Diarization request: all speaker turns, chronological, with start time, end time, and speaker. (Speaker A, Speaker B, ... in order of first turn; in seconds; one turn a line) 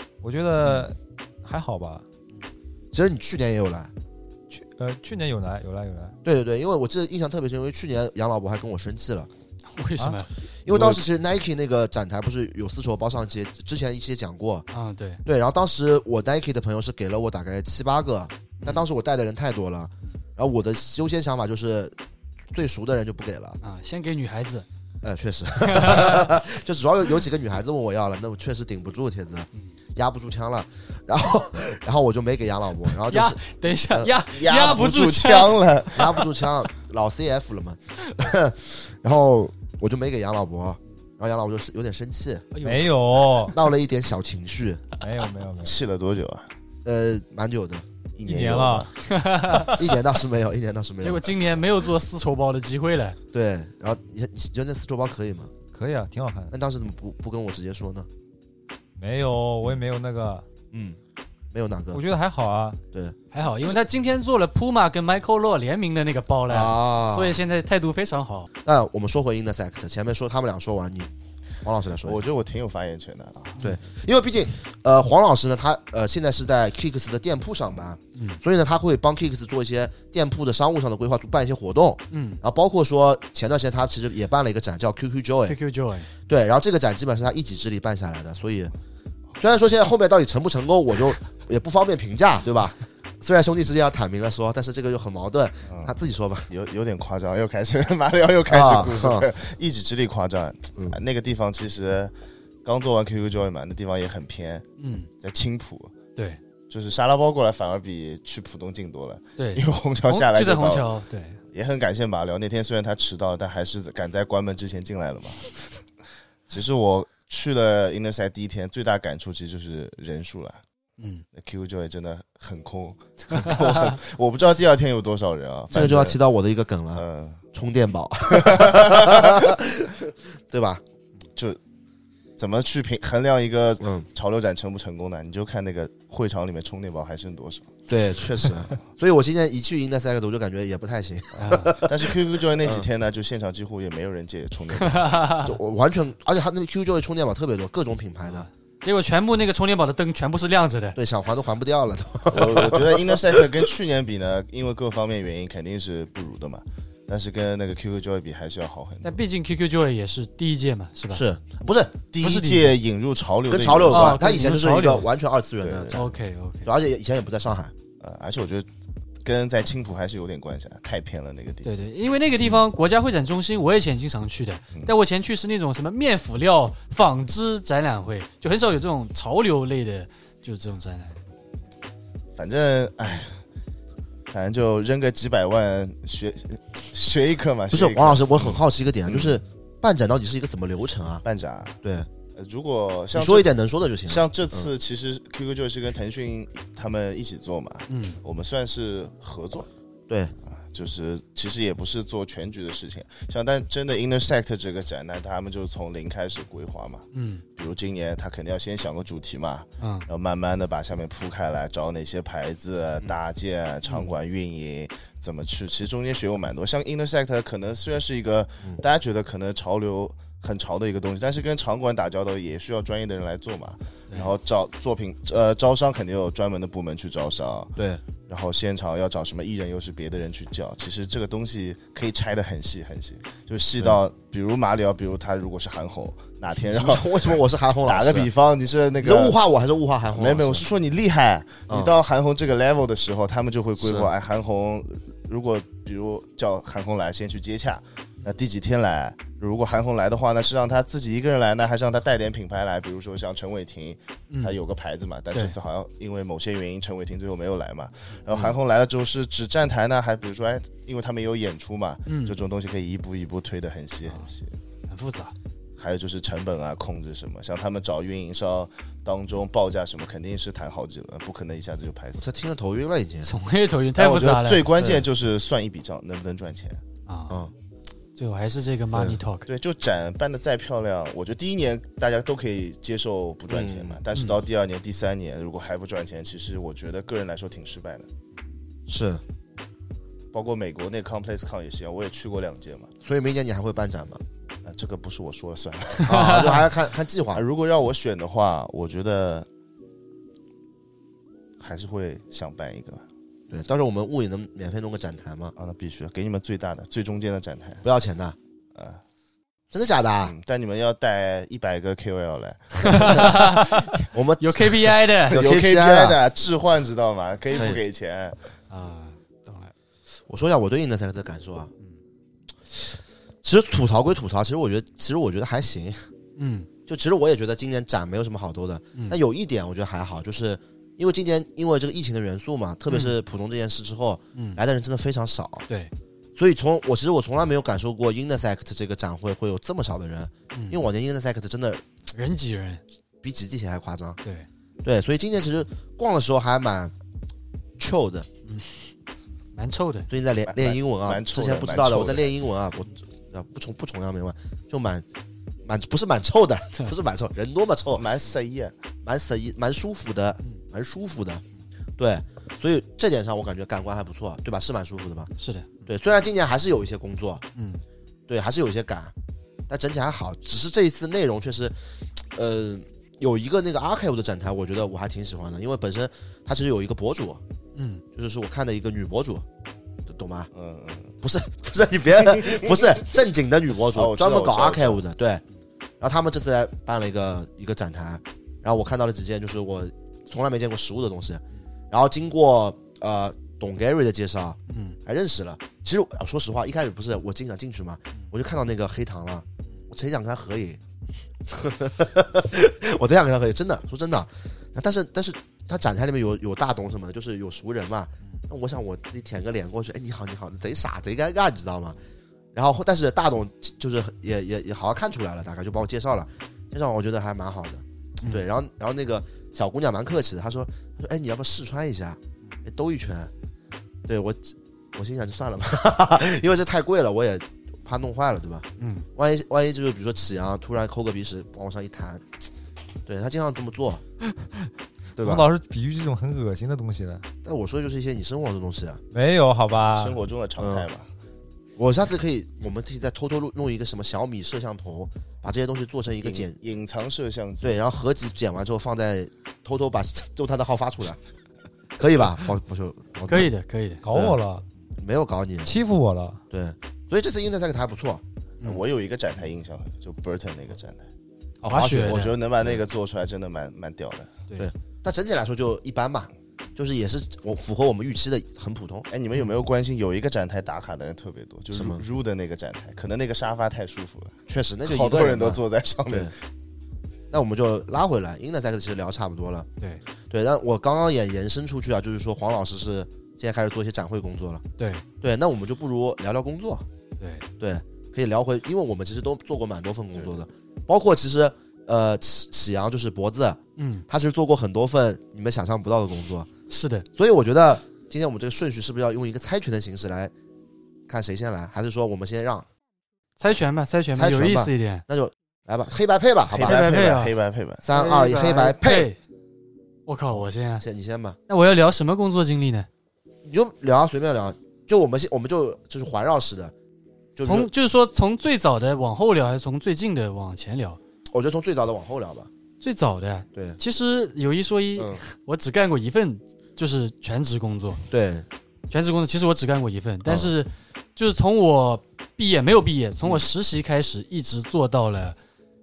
Speaker A: 0.2-2.0
Speaker B: 2.9-3.9
Speaker A: 4.5-6.1
Speaker B: 6.2-9.3
Speaker C: 9.7-10.3
Speaker B: 10.7-14.7
Speaker D: 10.7-11.0
Speaker C: 14.7-15.2
Speaker B: 15.2-21.9
Speaker C: 18.6-18.9
Speaker B: 22.5-23.6
Speaker C: 23.6-24.6
Speaker B: 25.0-33.4
Speaker C: 25.6-26.3
Speaker C: 33.0-36.3
Speaker D: 34.3-36.1
Speaker B: 35.9-42.5
Speaker C: 42.5-43.5
Speaker A: 42.6-43.6
Speaker B: 43.5-44.8
Speaker A: 45.0-45.8
Speaker D: 45.6-46.5
Speaker B: 46.8-47.8
Speaker D: 48.2-48.9
Speaker A: 48.2-48.9
Speaker C: 49.0-49.7
Speaker A: 49.5-49.8
Speaker B: 49.6-51.4
Speaker C: 51.0-53.2
Speaker B: 53.3-55.5
Speaker A: 55.7-56.5
Speaker B: 56.5-58.1
Speaker A: 59.0-60.5
Speaker B: 60.7-61.0
Speaker B: 61.5-62.0
Speaker A: 61.9-62.8
Speaker C: 63.3-68.5
Speaker B: 66.5-67.4
Speaker B: 68.6-71.1
Speaker B: 71.6-72.2
Speaker D: 72.0-73.6
Speaker B: 73.6-85.6
Speaker C: 78.1-78.4
Speaker C: 82.1-82.4
Speaker C: 85.5-86.1
Speaker B: 86.3-88.7
Speaker B: 89.4-96.5
Speaker D: 95.7-95.9
Speaker D: 96.5-102.1
Speaker B: 98.5-99.3
Speaker D: 102.6-104.7
Speaker C: 104.8-105.1
Speaker D: 105.2-105.9
Speaker D: 106.7-110.9
Speaker C: 109.4-111.4
Speaker D: 111.5-115.8
Speaker D: 116.5-120.6
Speaker C: 121.0-121.2
Speaker D: 121.4-126.2
Speaker B: 125.7-130.8
Speaker D: 127.0-127.4
Speaker D: 128.3-129.5
Speaker D: 132.4-137.8
Speaker B: 133.8-134.1
Speaker B: 137.9-142.9
Speaker D: 138.4-138.8
Speaker C: 141.4-141.7
Speaker D: 141.8-145.3
Speaker C: 144.8-145.5
Speaker B: 145.4-148.5
Speaker C: 148.3-151.0
Speaker B: 150.9-153.6
Speaker D: 152.3-159.2
Speaker C: 159.0-161.2
Speaker B: 161.1-162.0
Speaker D: 162.1-164.2
Speaker C: 162.2-162.7
Speaker B: 163.5-166.1
Speaker C: 163.9-165.1
Speaker D: 165.6-166.0
Speaker C: 165.9-166.7
Speaker B: 166.6-167.7
Speaker D: 168.0-168.7
Speaker D: 169.2-171.7
Speaker C: 171.6-181.2
Speaker D: 182.4-183.4
Speaker D: 184.3-189.4
Speaker B: 187.7-191.2
Speaker D: 191.2-191.8
Speaker B: 191.8-192.1
Speaker D: 192.3-193.5
Speaker B: 193.1-194.7
Speaker D: 194.1-199.7
Speaker C: 197.9-198.2
Speaker D: 200.5-207.1
Speaker C: 207.1-207.4
Speaker D: 207.6-239.4
Speaker C: 209.8-210.1
Speaker C: 213.8-214.1
Speaker B: 227.8-228.0
Speaker B: 236.5-238.3
Speaker B: 239.0-240.7
Speaker D: 240.1-264.5
Speaker B: 241.7-241.9
Speaker B: 243.8-244.1
Speaker C: 254.3-254.5
Speaker B: 258.3-258.5
Speaker C: 262.1-262.4
Speaker C: 264.9-265.3
Speaker D: 265.8-272.3
Speaker B: 272.2-273.3
Speaker C: 273.2-274.6
Speaker D: 273.9-276.8
Speaker B: 274.7-275.1
Speaker C: 277.1-277.4
Speaker C: 278.1-279.4
Speaker B: 278.9-279.2
Speaker D: 279.5-288.1
Speaker B: 283.5-284.0
Speaker B: 288.9-289.2
Speaker D: 290.3-292.9
Speaker B: 293.0-294.2
Speaker D: 294.6-296.6
Speaker B: 296.1-297.4
Speaker C: 296.1-296.6
Speaker D: 297.3-299.5
Speaker D: 301.6-303.0
Speaker B: 303.5-305.5
Speaker D: 305.6-307.8
Speaker B: 307.8-308.4
Speaker D: 308.7-309.0
Speaker B: 309.7-310.3
Speaker D: 310.2-313.4
Speaker C: 312.8-315.4
Speaker B: 313.0-313.5
Speaker B: 314.1-314.8
Speaker D: 315.3-318.4
Speaker B: 315.3-316.2
Speaker B: 317.6-317.8
Speaker C: 318.7-319.7
Speaker B: 320.3-321.7
Speaker B: 322.7-326.1
Speaker C: 326.4-326.7
Speaker B: 326.9-335.6
Speaker C: 332.9-333.1
Speaker C: 334.4-334.6
Speaker B: 336.4-341.8
Speaker C: 340.5-340.8
Speaker C: 342.1-342.8
Speaker B: 343.2-344.2
Speaker B: 344.8-346.9
Speaker B: 347.8-348.3
Speaker C: 348.4-348.9
Speaker C: 349.5-350.1
Speaker B: 350.1-355.0
Speaker D: 350.5-352.3
Speaker B: 355.6-358.0
Speaker D: 357.9-358.7
Speaker B: 359.0-361.4
Speaker B: 362.0-365.3
Speaker C: 365.4-365.7
Speaker B: 365.9-367.4
Speaker C: 367.5-367.8
Speaker B: 368.3-369.1
Speaker B: 369.7-371.8
Speaker B: 372.3-377.4
Speaker C: 377.7-378.0
Speaker B: 378.1-379.4
Speaker B: 380.1-380.5
Speaker D: 380.5-381.1
Speaker B: 381.2-385.4
Speaker D: 382.2-382.9
Speaker D: 383.9-385.0
Speaker B: 386.0-400.8
Speaker C: 394.7-395.0
Speaker B: 401.4-412.0
Speaker B: 412.5-423.3
Speaker B: 424.1-432.3
Speaker C: 428.8-429.1
Speaker B: 433.1-434.0
Speaker A: 434.4-437.2
Speaker B: 435.1-435.5
Speaker B: 437.4-439.0
Speaker A: 439.1-440.2
Speaker D: 439.9-441.1
Speaker B: 440.6-440.9
Speaker B: 441.8-446.6
Speaker D: 446.2-447.8
Speaker B: 447.6-451.2
Speaker B: 452.0-453.5
Speaker C: 453.3-454.0
Speaker A: 454.0-454.6
Speaker B: 454.1-454.4
Speaker B: 455.0-455.8
Speaker A: 455.6-456.4
Speaker B: 456.5-458.2
Speaker D: 458.6-461.1
Speaker C: 461.6-462.3
Speaker B: 461.6-462.8
Speaker D: 462.0-464.3
Speaker B: 464.6-469.1
Speaker D: 469.1-476.3
Speaker B: 471.7-472.0
Speaker B: 474.5-476.3
Speaker B: 477.3-479.7
Speaker B: 480.3-484.6
Speaker C: 484.8-485.0
Speaker B: 485.2-486.9
Speaker C: 487.2-487.4
Speaker B: 487.6-496.5
Speaker C: 493.8-494.1
Speaker C: 496.7-497.1
Speaker B: 497.1-500.3
Speaker B: 501.1-502.7
Speaker C: 503.4-505.0
Speaker B: 504.1-506.8
Speaker D: 506.5-507.8
Speaker C: 506.6-507.4
Speaker B: 507.8-509.1
Speaker C: 507.9-509.2
Speaker C: 510.1-510.8
Speaker B: 510.8-511.4
Speaker C: 511.5-512.9
Speaker B: 513.4-516.7
Speaker B: 517.4-517.7
Speaker C: 517.4-521.0
Speaker B: 521.3-522.5
Speaker C: 522.8-528.0
Speaker B: 523.5-523.8
Speaker B: 525.0-525.2
Speaker B: 528.1-528.5
Speaker C: 528.9-535.4
Speaker B: 530.2-530.5